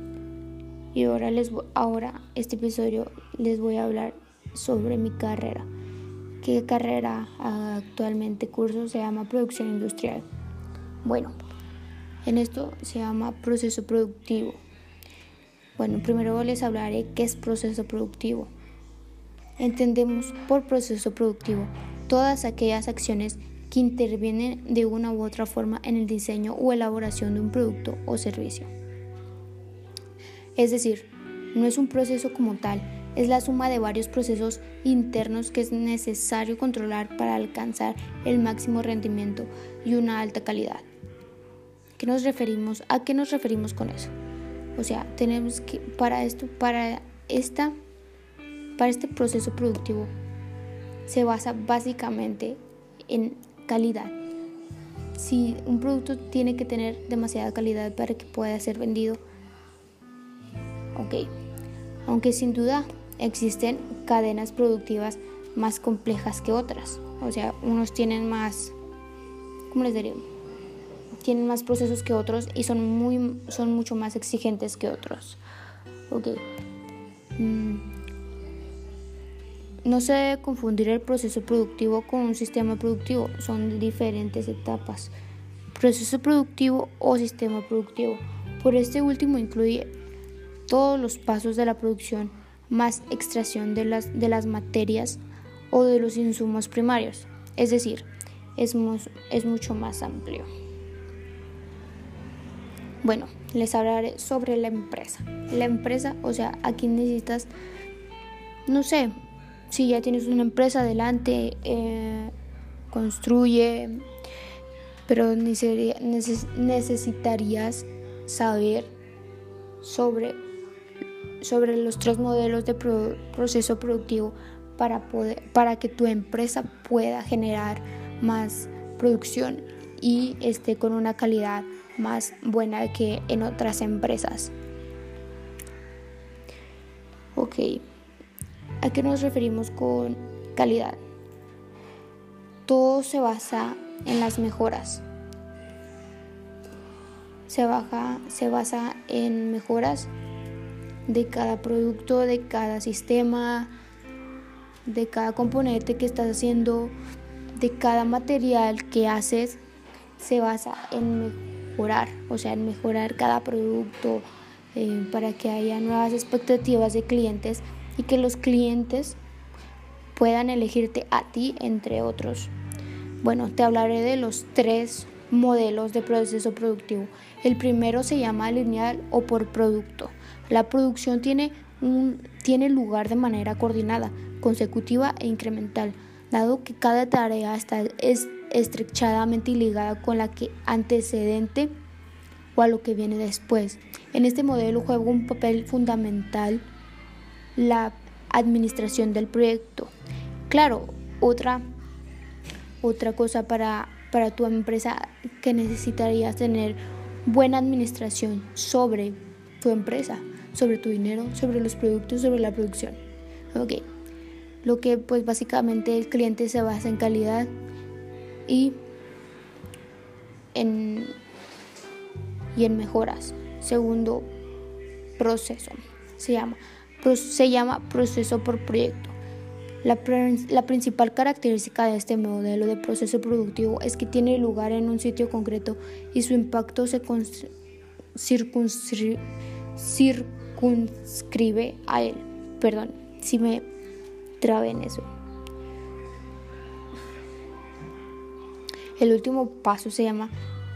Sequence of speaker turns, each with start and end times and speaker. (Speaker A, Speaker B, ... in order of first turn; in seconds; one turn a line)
Speaker A: 0.9-5.7
Speaker A: 6.4-10.2
Speaker A: 11.0-11.3
Speaker A: 12.2-14.6
Speaker A: 15.8-18.5
Speaker A: 19.6-28.7
Speaker A: 30.6-40.9
Speaker A: 42.0-44.1
Speaker A: 44.8-47.8
Speaker A: 48.8-50.1
Speaker A: 51.1-54.2
Speaker A: 55.1-59.2
Speaker A: 61.0-61.3
Speaker A: 62.1-68.8
Speaker A: 69.7-70.3
Speaker A: 71.2-75.4
Speaker A: 76.1-76.4
Speaker A: 77.4-77.8
Speaker A: 79.8-85.1
Speaker A: 85.7-89.9
Speaker A: 90.7-95.2
Speaker A: 95.7-100.5
Speaker A: 103.0-107.5
Speaker A: 108.7-109.1
Speaker A: 109.7-112.3
Speaker A: 112.9-114.0
Speaker A: 115.1-118.9
Speaker A: 119.8-120.4
Speaker A: 121.4-134.5
Speaker A: 137.3-137.8
Speaker A: 138.8-141.0
Speaker A: 142.7-145.0
Speaker A: 147.5-150.1
Speaker A: 151.1-153.7
Speaker A: 154.9-157.0
Speaker A: 157.6-159.6
Speaker A: 160.2-169.2
Speaker A: 170.2-172.5
Speaker A: 173.2-191.7
Speaker A: 192.6-196.7
Speaker A: 197.6-199.9
Speaker A: 200.5-201.6
Speaker A: 202.8-213.0
Speaker A: 213.5-213.9
Speaker A: 214.6-217.5
Speaker A: 218.5-218.8
Speaker A: 220.5-221.2
Speaker A: 222.5-224.3
Speaker A: 225.2-229.2
Speaker A: 229.8-237.5
Speaker A: 238.2-239.2
Speaker A: 239.8-243.7
Speaker A: 244.4-245.1
Speaker A: 249.0-250.3